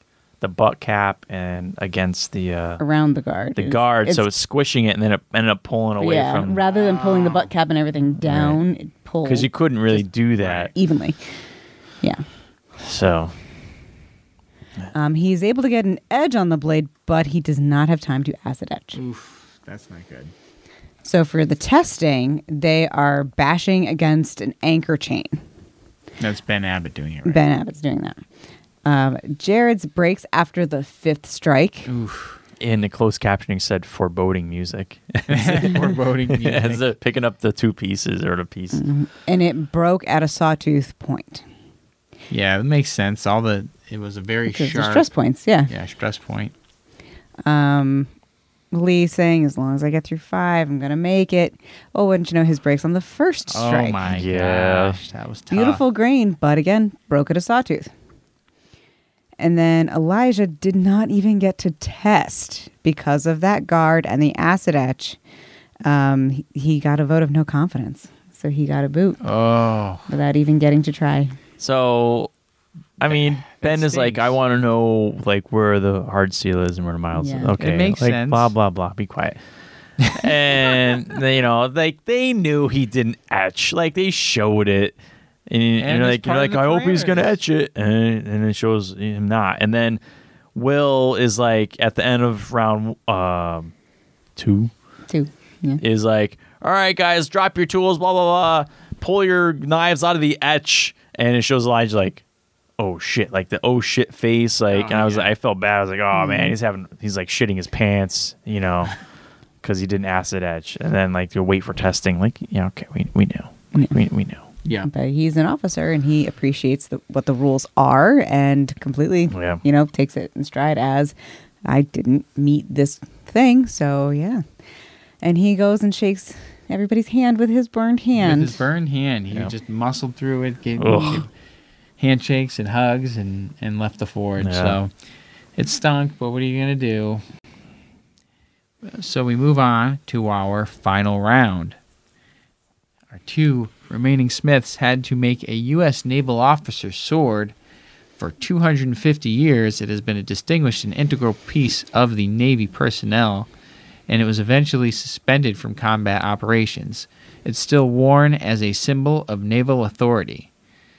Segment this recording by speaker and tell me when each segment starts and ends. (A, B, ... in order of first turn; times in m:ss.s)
0:00.4-0:02.8 A
0:02.8-0:04.3 B
0:03.6-0:06.6 A
0:06.0-0:10.1 B
0:06.6-0:07.5 C
0:08.2-0:08.6 A
0:09.2-0:10.7 A
0:10.4-0:10.7 C
0:10.7-0:11.2 B
0:12.8-0:13.3 A
0:14.9-0:19.0 B
0:18.9-0:20.3 C
0:21.0-0:25.4 B
0:26.2-0:27.5 C
0:27.2-0:28.2 B
0:28.8-0:31.9 B
0:31.9-0:32.4 C
0:32.6-0:38.8 A
0:35.3-0:36.9 C
0:38.7-0:41.4 B
0:42.3-0:45.1 C
0:44.5-0:45.7 B
0:45.7-0:46.5 C
0:47.4-0:48.1 B
0:48.7-0:54.0 B
0:53.5-0:55.8 C
0:54.1-0:55.0 A
0:55.5-0:57.9 B
0:59.4-1:05.2 B
1:05.8-1:09.2 B
1:09.2-1:10.1 C
1:10.1-1:11.4 B
1:11.6-1:12.3 A
1:13.0-1:19.4 A
1:13.0-1:14.4 C
1:17.1-1:17.6 B
1:17.6-1:18.5 C
1:20.1-1:20.8 C
1:20.1-1:25.0 A
1:25.5-1:30.0 A
1:25.8-1:27.4 C
1:30.6-1:33.7 A
1:34.4-1:34.7 A
1:35.1-1:35.8 B
1:35.8-1:42.2 A
1:42.8-1:49.0 A
1:44.7-1:45.3 C
1:46.1-1:46.6 B
1:49.6-1:54.5 A
1:54.6-1:54.9 C
1:54.9-2:04.4 B
1:59.3-1:59.6 A
2:05.2-2:08.6 B
2:08.2-2:11.3 C
2:10.8-2:11.2 A
2:12.0-2:14.9 C
2:14.4-2:14.8 A
2:15.6-2:17.2 C
2:18.9-2:21.8 C
2:23.1-2:27.5 C
2:28.2-2:33.5 C
2:34.1-2:40.5 C